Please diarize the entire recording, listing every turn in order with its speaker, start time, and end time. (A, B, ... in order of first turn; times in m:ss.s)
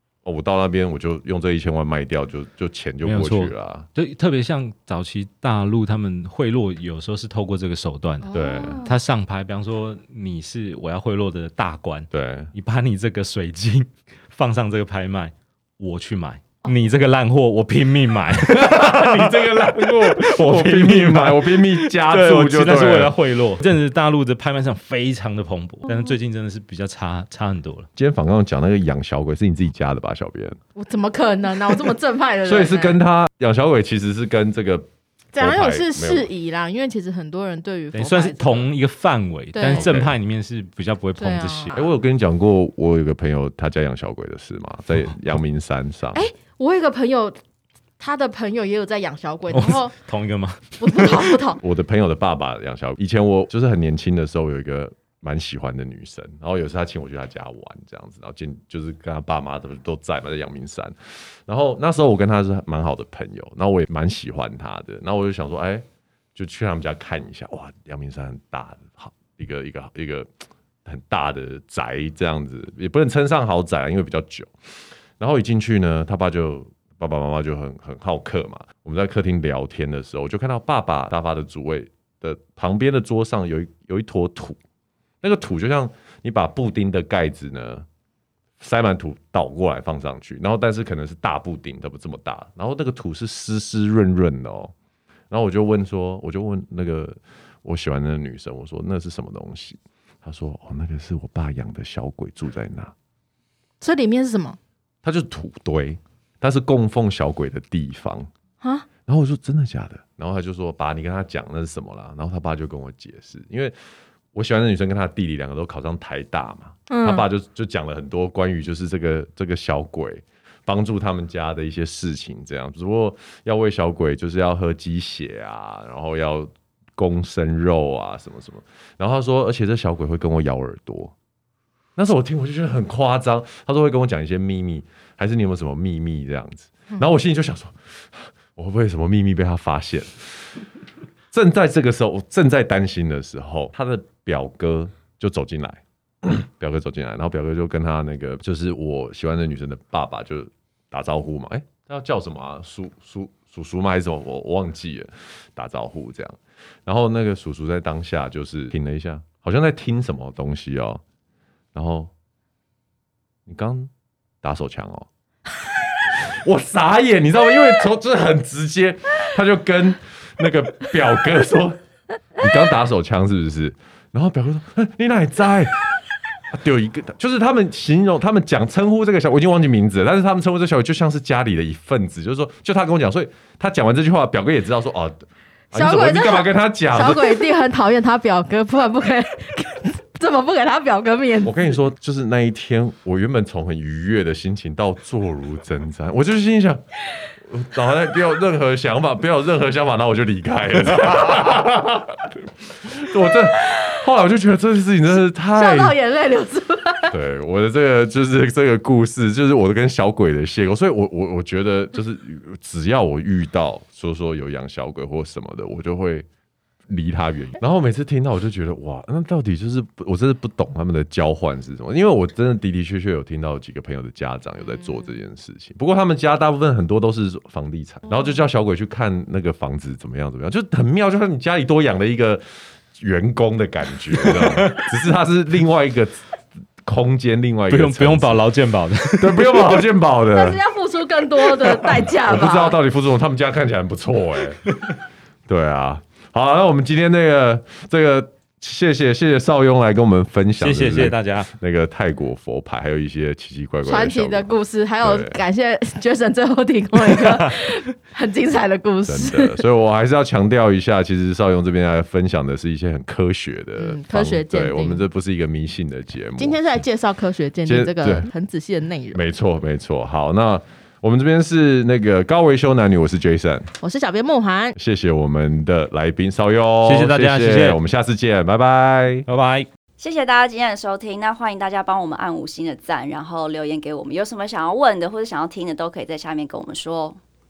0:00.2-0:03.9 A
0:03.0-0:08.3 B
0:08.2-0:08.9 C
0:08.3-0:08.9 A
0:08.8-0:27.9 B
0:12.1-0:12.5 A
0:18.4-0:23.2 A
0:28.0-0:30.6 A
0:30.8-0:33.0 C
0:32.4-0:36.3 A
0:35.3-0:38.7 C
0:37.9-0:41.7 B
0:39.5-0:39.9 C
0:39.8-0:40.1 A
0:41.2-0:41.9 C
0:41.7-0:46.3 A
0:46.1-0:47.4 C
0:48.0-0:49.9 C
0:49.5-0:51.0 B
0:50.8-0:51.6 C
0:51.6-1:00.9 A
1:01.5-1:10.3 A
1:10.8-1:14.5 A
1:15.2-1:24.6 A
1:25.2-1:27.9 A
1:28.6-1:34.7 A
1:35.3-1:42.9 A
1:43.8-1:44.6 C
1:45.0-1:48.3 A
1:48.6-1:48.9 C
1:49.0-1:53.7 A
1:54.3-2:11.1 A
1:56.9-1:57.2 C
2:12.0-2:20.6 A
2:21.3-2:41.0 A
2:41.7-2:42.1 A
2:43.4-2:43.9 A
2:44.4-2:45.1 A
2:46.1-2:51.8 A
2:52.4-2:55.9 A
2:56.5-3:07.4 A
3:05.7-3:11.7 C
3:11.4-3:16.8 A
3:17.4-3:26.0 A
3:25.5-3:27.1 C
3:27.1-3:36.3 A
3:36.9-3:52.4 A
3:53.0-3:56.2 A
3:54.1-3:54.9 B
3:56.8-3:58.4 A
3:57.7-3:59.8 B
3:59.2-4:00.6 A
4:00.3-4:02.8 C
4:01.9-4:04.6 A
4:05.5-4:14.5 A
4:10.6-4:11.5 B
4:13.9-4:19.6 C
4:15.0-4:15.4 A
4:19.0-4:26.6 A
4:23.8-4:25.0 C
4:26.4-4:29.2 C
4:27.7-4:28.3 A
4:29.1-4:33.7 A
4:33.8-4:34.8 C
4:34.8-4:39.3 A
4:36.8-4:37.8 B
4:39.3-4:39.7 B
4:40.0-4:47.2 D